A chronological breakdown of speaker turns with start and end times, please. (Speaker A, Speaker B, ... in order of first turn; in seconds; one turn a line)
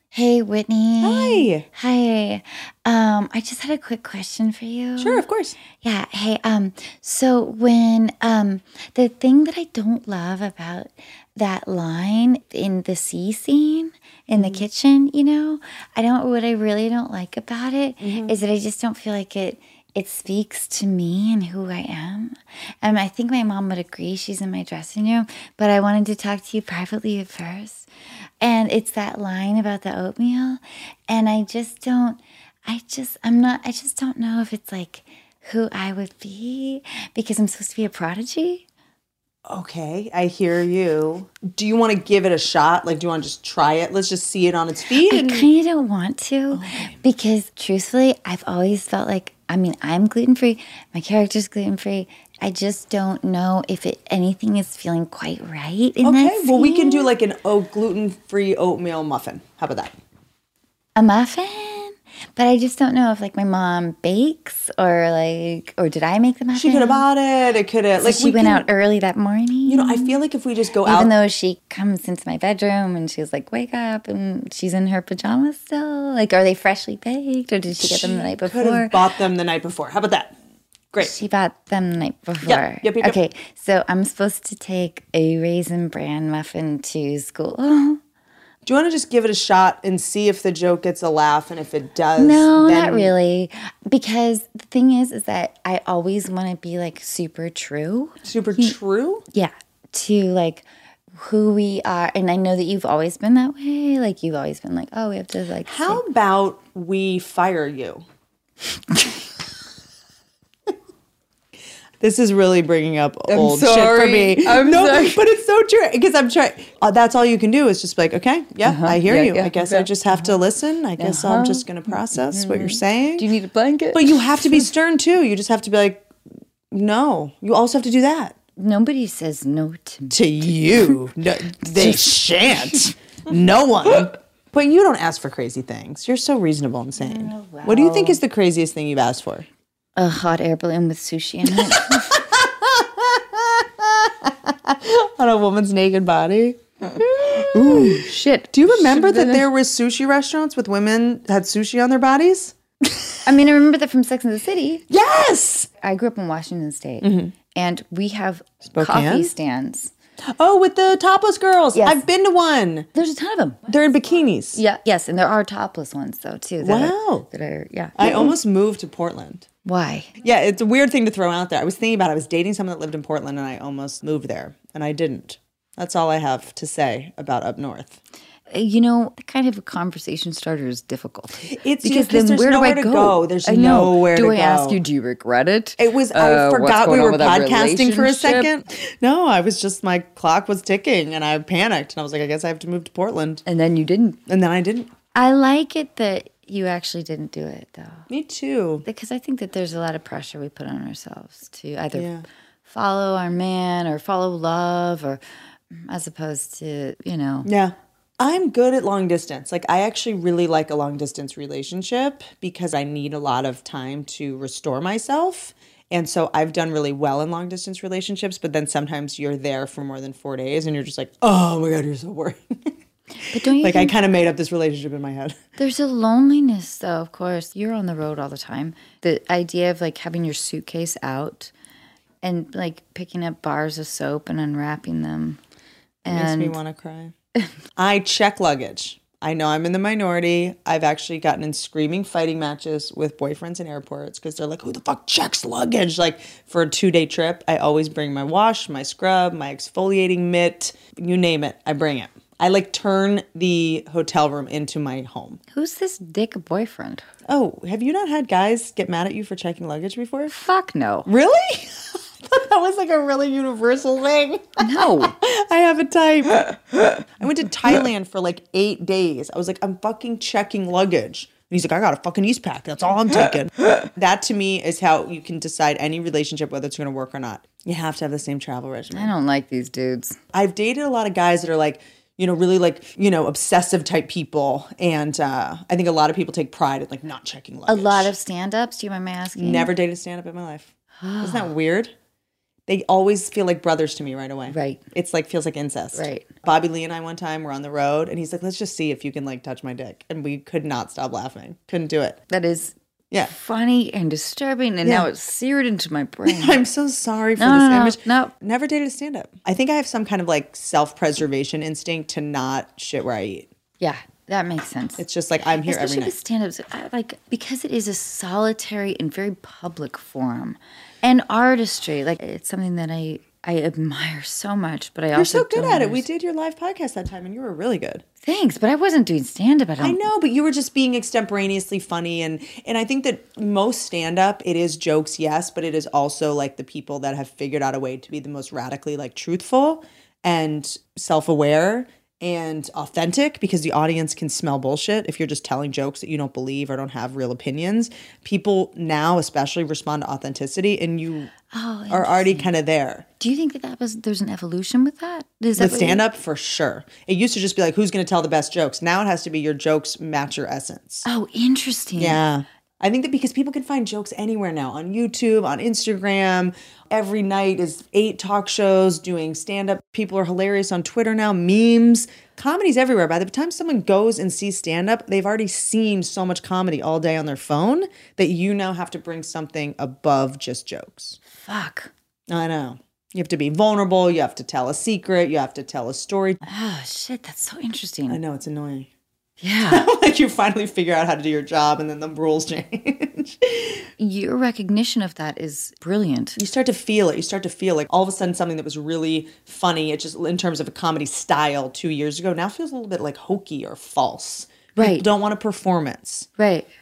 Speaker A: 0.1-5.2
Speaker B: 1.0-1.6
Speaker B: 5.0-5.6
Speaker A: 5.8-27.9
Speaker B: 14.3-14.6
Speaker B: 18.0-18.3
Speaker A: 28.4-38.6
Speaker B: 39.5-45.5
Speaker A: 45.1-57.1
Speaker B: 46.5-47.0
Speaker B: 56.0-59.9
Speaker A: 61.0-67.0
Speaker B: 66.5-68.7
Speaker A: 68.0-70.2
Speaker B: 69.6-71.1
Speaker A: 70.8-78.9
Speaker B: 77.8-80.3
Speaker A: 81.0-88.0
Speaker B: 82.4-83.2
Speaker B: 88.6-93.1
Speaker A: 92.2-98.8
Speaker B: 98.2-99.2
Speaker A: 99.3-106.0
Speaker B: 105.6-108.0
Speaker B: 112.0-123.3
Speaker A: 113.3-115.2
Speaker A: 118.6-120.4
Speaker A: 121.0-124.6
Speaker B: 123.9-126.1
Speaker B: 126.7-128.3
Speaker A: 128.6-131.0
Speaker B: 130.1-139.5
Speaker A: 131.6-132.1
Speaker A: 137.0-138.2
Speaker A: 139.9-142.2
Speaker B: 141.5-153.2
Speaker A: 147.2-149.4
Speaker A: 153.2-154.8
Speaker B: 154.9-155.7
Speaker A: 155.8-159.9
Speaker B: 157.0-157.3
Speaker B: 158.6-159.3
Speaker B: 160.2-162.9
Speaker A: 161.7-162.1
Speaker A: 162.9-163.7
Speaker B: 163.7-164.6
Speaker A: 164.5-168.3
Speaker B: 166.6-167.3
Speaker B: 167.9-169.5
Speaker A: 169.6-170.1
Speaker B: 170.2-178.0
Speaker A: 178.5-188.5
Speaker B: 181.4-184.8
Speaker B: 185.8-193.4
Speaker A: 193.4-194.2
Speaker B: 194.3-194.9
Speaker A: 195.1-198.1
Speaker B: 198.1-198.8
Speaker A: 198.8-202.1
Speaker B: 201.9-202.2
Speaker A: 202.7-207.5
Speaker B: 207.4-222.7
Speaker A: 223.2-223.9
Speaker B: 223.3-225.4
Speaker A: 225.6-231.5
Speaker A: 232.2-235.4
Speaker A: 236.0-236.6
Speaker B: 236.1-237.1
Speaker B: 237.8-255.4
Speaker A: 255.5-257.0
Speaker B: 257.2-260.3
Speaker A: 260.3-261.1
Speaker B: 261.1-279.1
Speaker A: 264.6-265.1
Speaker A: 278.9-280.2
Speaker B: 280.3-288.1
Speaker A: 287.7-289.7
Speaker B: 289.3-291.9
Speaker A: 291.0-291.5
Speaker B: 292.7-302.2
Speaker A: 294.5-294.8
Speaker A: 295.9-296.3
Speaker A: 302.3-302.7
Speaker A: 303.2-306.6
Speaker B: 306.2-313.5
Speaker A: 307.4-308.3
Speaker A: 313.8-315.0
Speaker B: 315.0-316.1
Speaker A: 315.6-326.1
Speaker B: 325.1-328.0
Speaker A: 328.2-330.0
Speaker B: 329.8-351.3
Speaker A: 351.5-352.5
Speaker B: 351.9-353.1
Speaker A: 353.2-356.0
Speaker B: 355.6-361.1
Speaker A: 361.0-362.2
Speaker B: 362.0-381.2
Speaker A: 381.3-381.9
Speaker B: 382.3-386.4
Speaker A: 386.4-388.2
Speaker B: 388.1-388.9
Speaker A: 389.4-389.9
Speaker B: 389.6-393.8
Speaker A: 394.0-396.4
Speaker B: 396.4-406.3
Speaker A: 404.8-405.1
Speaker A: 406.4-406.7